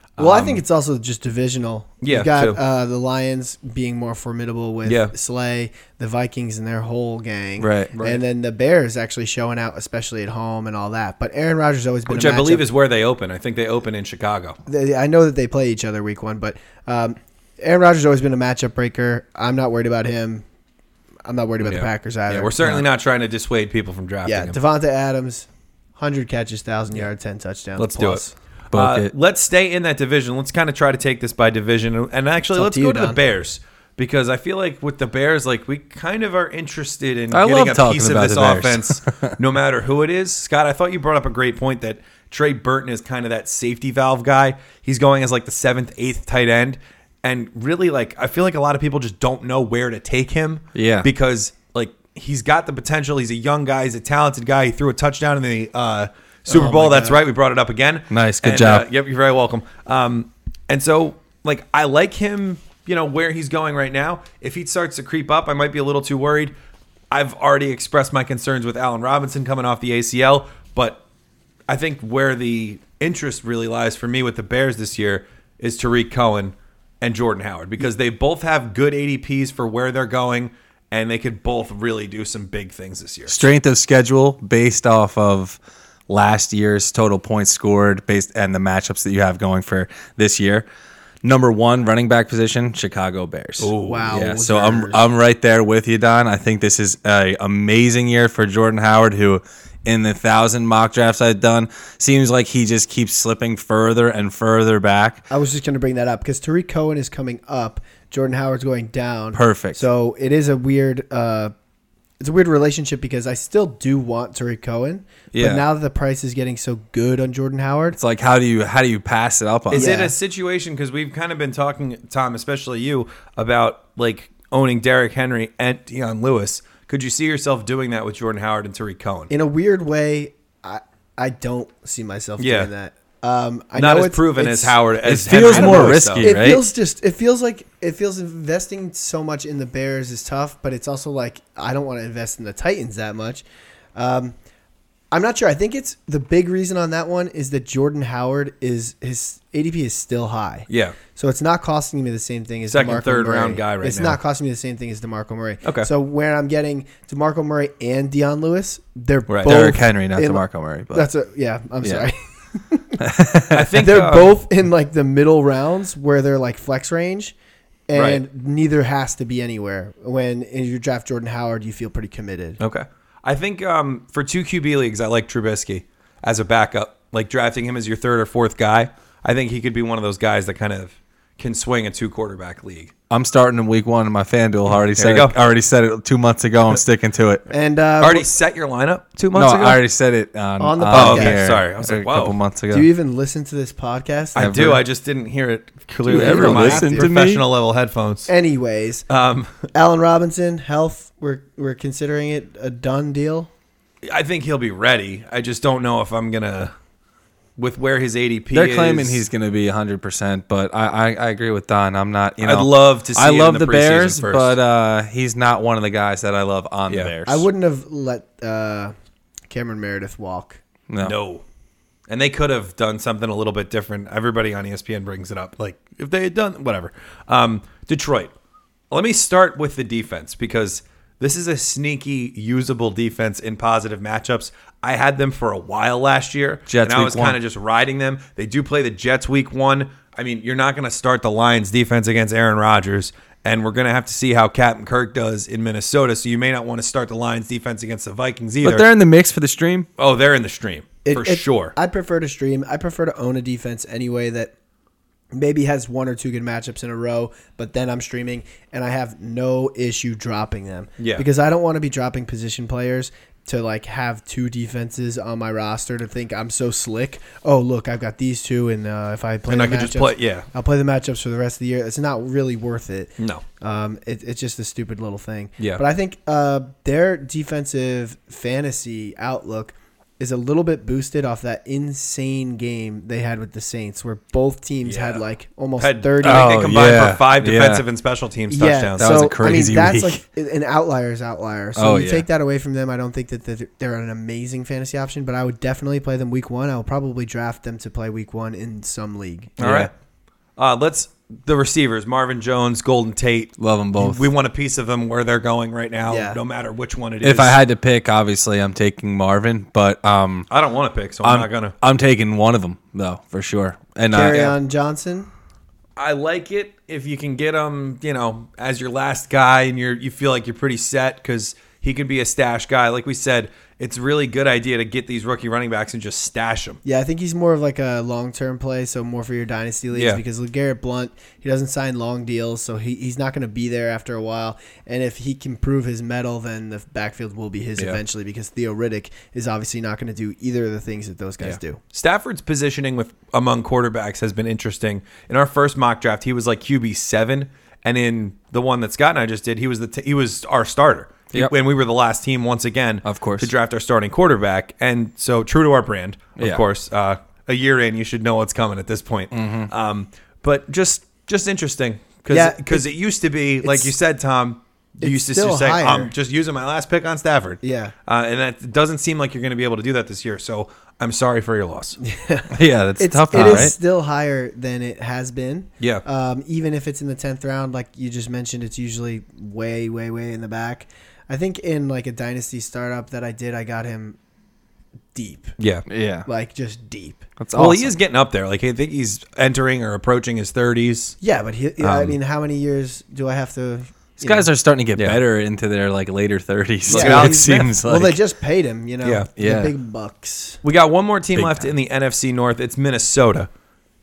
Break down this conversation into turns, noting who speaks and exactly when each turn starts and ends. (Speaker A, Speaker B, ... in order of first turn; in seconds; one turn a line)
Speaker A: 0.2-0.6
Speaker B: 0.2-12.7
Speaker A: 2.0-2.6
Speaker A: 4.8-5.1
Speaker C: 7.6-7.9
Speaker A: 7.9-8.2
Speaker A: 12.1-14.6
Speaker B: 14.7-20.4
Speaker B: 21.2-22.5
Speaker A: 21.6-24.6
Speaker B: 24.2-28.3
Speaker A: 27.8-66.5
Speaker C: 28.7-29.1
Speaker B: 32.5-33.2
Speaker C: 37.3-39.3
Speaker C: 50.7-51.1
Speaker B: 56.5-57.2
Speaker C: 58.1-58.9
Speaker A: 67.1-71.0
Speaker A: 71.7-83.4
Speaker C: 83.3-90.7
Speaker C: 91.2-105.2
Speaker A: 93.6-94.2
Speaker B: 93.8-95.0
Speaker B: 105.3-111.5
Speaker C: 109.3-109.8
Speaker B: 112.2-118.0
Speaker C: 115.3-115.6
Speaker C: 117.9-120.0
Speaker A: 119.7-129.3
Speaker B: 119.7-120.1
Speaker B: 129.3-134.8
Speaker A: 132.4-132.7
Speaker A: 133.7-136.4
Speaker C: 135.0-136.6
Speaker B: 135.4-143.4
Speaker B: 143.9-144.3
Speaker B: 145.1-163.0
Speaker A: 150.7-151.0
Speaker A: 152.7-154.2
Speaker A: 155.6-155.9
Speaker A: 159.3-159.6
Speaker C: 159.4-161.1
Speaker C: 163.0-163.8
Speaker A: 163.5-164.3
Speaker B: 163.8-167.3
Speaker B: 167.9-172.6
Speaker A: 167.9-168.2
Speaker A: 172.6-182.9
Speaker C: 183.1-187.4
Speaker A: 184.9-185.4
Speaker B: 187.5-188.2
Speaker A: 188.0-189.8
Speaker C: 189.3-192.9
Speaker B: 190.6-191.4
Speaker A: 190.9-192.4
Speaker B: 192.7-194.6
Speaker A: 194.3-198.3
Speaker C: 194.4-194.8
Speaker C: 196.1-197.4
Speaker B: 196.1-197.1
Speaker B: 198.3-199.1
Speaker A: 199.1-199.7
Speaker B: 199.7-203.5
Speaker A: 204.1-206.7
Speaker A: 207.6-209.2
Speaker C: 208.5-217.4
Speaker A: 212.4-214.6
Speaker B: 217.2-218.9
Speaker B: 219.5-220.6
Speaker C: 220.9-221.1
Speaker A: 221.0-221.4
Speaker A: 222.1-228.3
Speaker A: 228.9-248.9
Speaker C: 236.7-237.4
Speaker C: 248.6-249.9
Speaker A: 250.0-251.7
Speaker B: 251.0-254.5
Speaker B: 255.3-286.6
Speaker A: 261.0-261.2
Speaker A: 269.5-270.5
Speaker A: 284.8-285.2
Speaker A: 285.8-289.2
Speaker C: 286.2-287.8
Speaker B: 288.5-299.6
Speaker C: 289.0-290.2
Speaker C: 291.8-292.2
Speaker C: 299.6-299.9
Speaker A: 299.6-299.9
Speaker A: 300.6-307.6
Speaker C: 303.6-304.3
Speaker B: 306.1-306.4
Speaker C: 307.2-310.5
Speaker A: 310.5-311.7
Speaker C: 311.2-314.5
Speaker B: 314.1-315.3
Speaker A: 316.0-326.8
Speaker B: 326.8-341.8
Speaker A: 329.9-330.2
Speaker A: 341.9-372.0
Speaker C: 353.0-353.5
Speaker C: 356.4-356.6
Speaker C: 359.3-359.7
Speaker B: 362.3-362.9
Speaker B: 363.6-363.9
Speaker B: 365.0-366.1
Speaker B: 367.6-367.9
Speaker B: 372.0-384.2
Speaker C: 372.5-373.7
Speaker B: 385.1-385.5
Speaker A: 385.6-385.8
Speaker C: 385.9-386.2
Speaker B: 386.2-387.2
Speaker C: 387.4-387.9
Speaker A: 387.5-391.1
Speaker B: 391.2-394.5
Speaker A: 391.8-392.1
Speaker C: 394.2-398.2
Speaker A: 396.9-397.7
Speaker B: 396.9-400.6
Speaker C: 399.4-399.7
Speaker A: 400.6-403.5
Speaker C: 401.3-401.7